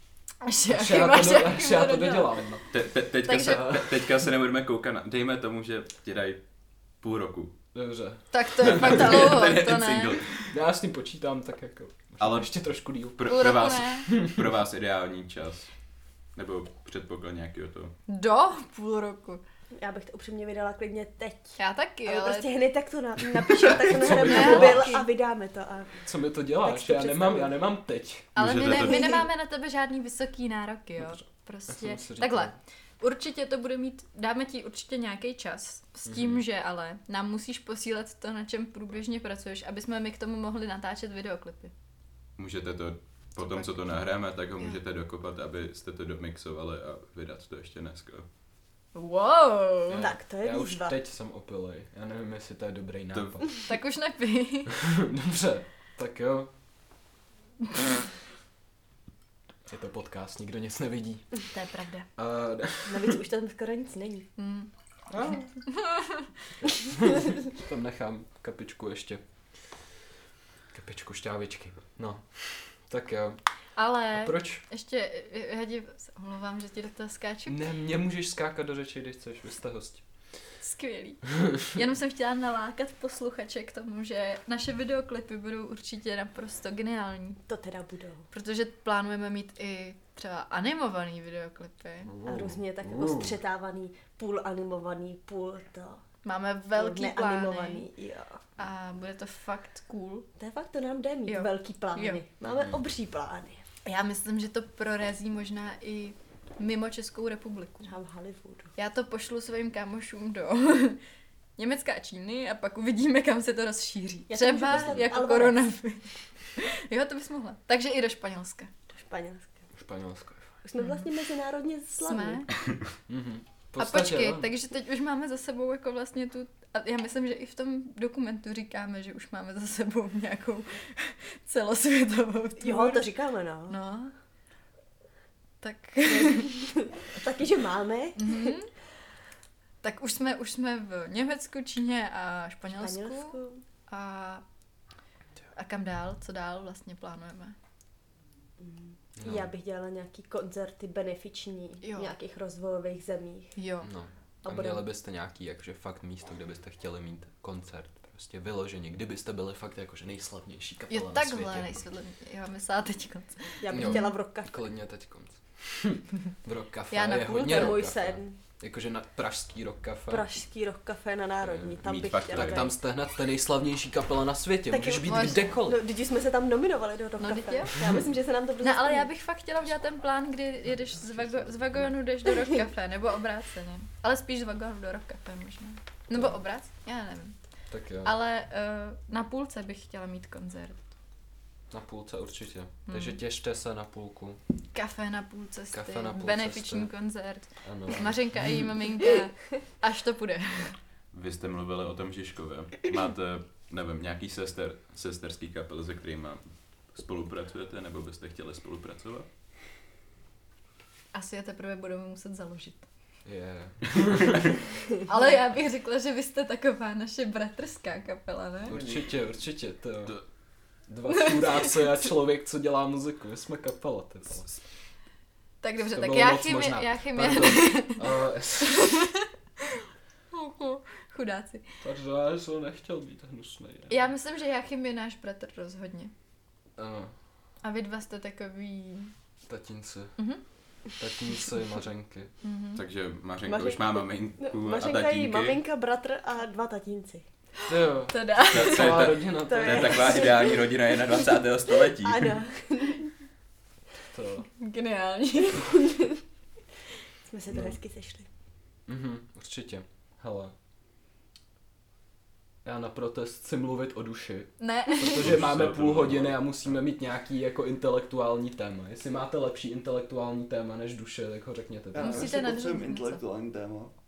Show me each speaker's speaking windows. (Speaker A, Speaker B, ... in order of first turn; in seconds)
Speaker A: 0.4-2.5, 3.2-3.6, 8.3-10.2, 13.2-14.1, 18.1-19.4, 21.6-22.5, 23.9-25.1, 28.4-41.7, 43.5-43.7, 48.9-50.1, 53.6-54.7, 61.5-62.1, 64.4-64.7, 65.7-66.2, 73.8-77.6, 80.6-87.4, 88.3-92.1, 96.2-97.8, 98.6-100.3, 101.2-102.2, 103.8-107.9, 108.8-111.0, 111.6-118.7, 120.8-121.0, 122.0-122.5, 123.8-133.1, 133.7-134.1, 135.6-136.5, 138.2-138.7, 139.8-143.4, 143.9-144.4, 145.5-147.6, 151.8-152.1, 153.5-153.9, 160.9-164.1, 166.9-167.8, 175.0-175.5, 177.2-177.8, 178.6-187.3, 188.0-190.8, 192.9-193.2, 194.7-200.8, 211.1-212.9, 215.0-218.7, 225.6-229.3, 230.3-231.7, 233.9-236.1, 237.6-239.1, 242.4-242.8, 247.6-249.0, 254.6-255.7, 264.6-265.2, 272.0-273.2
Speaker B: 0.7-2.7, 3.2-4.1, 7.7-9.3, 10.5-13.2, 14.1-14.4, 23.6-25.0, 26.0-28.3, 31.0-32.5, 36.0-36.4, 49.9-53.5, 54.8-56.5, 59.7-61.3, 62.2-63.2, 65.1-65.5, 66.6-69.2, 70.7-73.4, 74.1-74.6, 77.5-80.0, 92.1-93.3, 114.7-115.0, 119.7-120.5, 123.1-124.5, 149.2-149.5, 153.8-161.8, 163.7-170.2, 172.3-175.8, 181.1-181.9, 187.7-188.1, 191.7-194.4, 195.7-196.9, 197.6-198.2, 213.2-214.5, 218.7-220.2, 220.9-224.5, 225.9-228.9, 231.8-234.0, 236.8-237.1, 239.5-240.2, 241.0-242.3, 247.7-250.2, 254.1-254.5, 258.9-260.5, 262.6-272.4
Speaker C: 2.7-6.4, 7.0-7.5, 8.6-10.5, 12.2-12.5, 13.2-15.7, 16.3-17.9, 28.4-29.2, 42.4-48.2, 53.1-53.4, 171.8-172.7, 201.1-209.3, 242.7-245.6, 248.4-252.4, 265.0-266.4
Speaker D: 19.8-26.0, 26.6-27.5, 28.7-29.2, 50.0-51.0, 62.9-64.3, 87.5-88.2, 92.2-96.0, 96.7-98.4, 100.4-103.6, 107.8-108.7, 114.3-115.7, 118.9-119.5, 120.6-122.5, 132.6-133.8, 136.0-138.5, 142.7-143.6, 148.6-153.6, 154.4-154.8, 163.6-164.6, 167.4-168.3, 170.1-172.7, 174.7-179.1, 243.4-247.2, 249.4-250.9, 251.9-253.1, 255.6-256.2, 257.2-258.3
Speaker E: 271.9-273.9